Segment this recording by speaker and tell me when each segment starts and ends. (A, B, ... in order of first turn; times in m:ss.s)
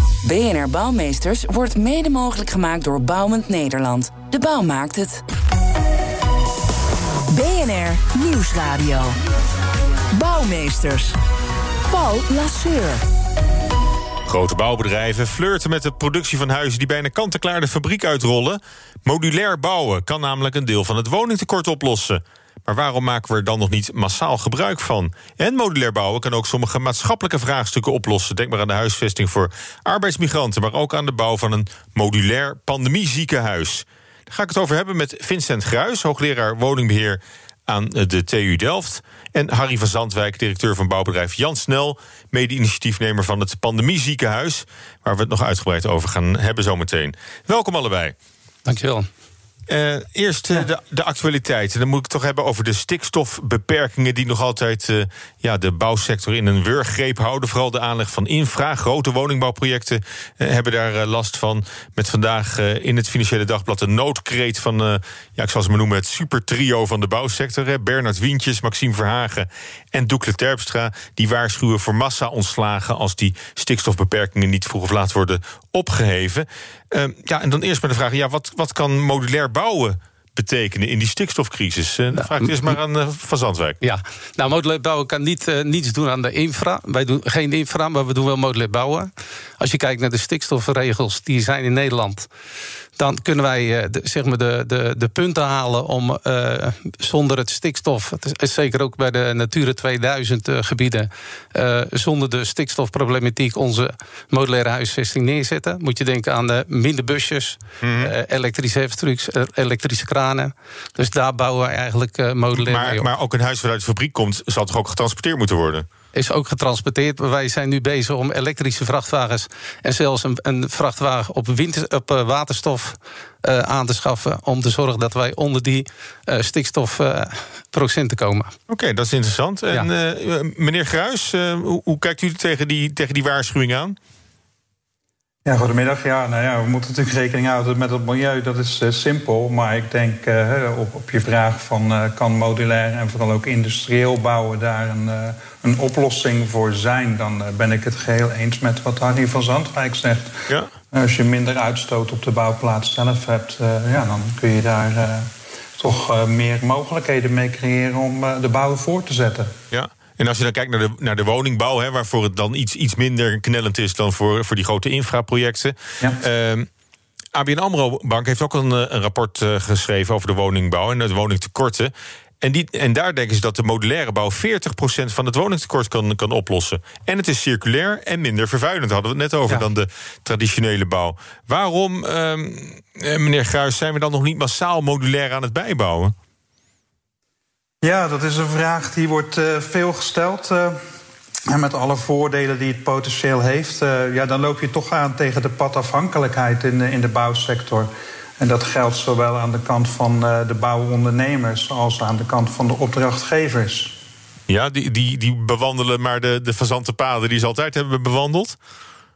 0:00.2-0:05.2 A
0:07.3-0:09.2 B
0:10.1-0:11.2 B
0:11.9-0:13.0 B
0:14.3-0:48.2 C
0:48.7-0:49.1 D
0:49.7-1:23.8 C
1:22.2-1:22.8 D
1:23.8-1:32.3 D
1:33.0-1:53.1 D
1:47.8-1:48.1 C
1:52.6-1:55.9 C
1:56.2-2:08.5 D
2:08.7-2:14.0 C
2:15.4-2:39.5 E
2:39.7-2:46.7 C
2:47.3-3:06.1 C
3:07.8-3:10.8 E
3:11.5-3:24.0 E
3:24.5-3:28.6 C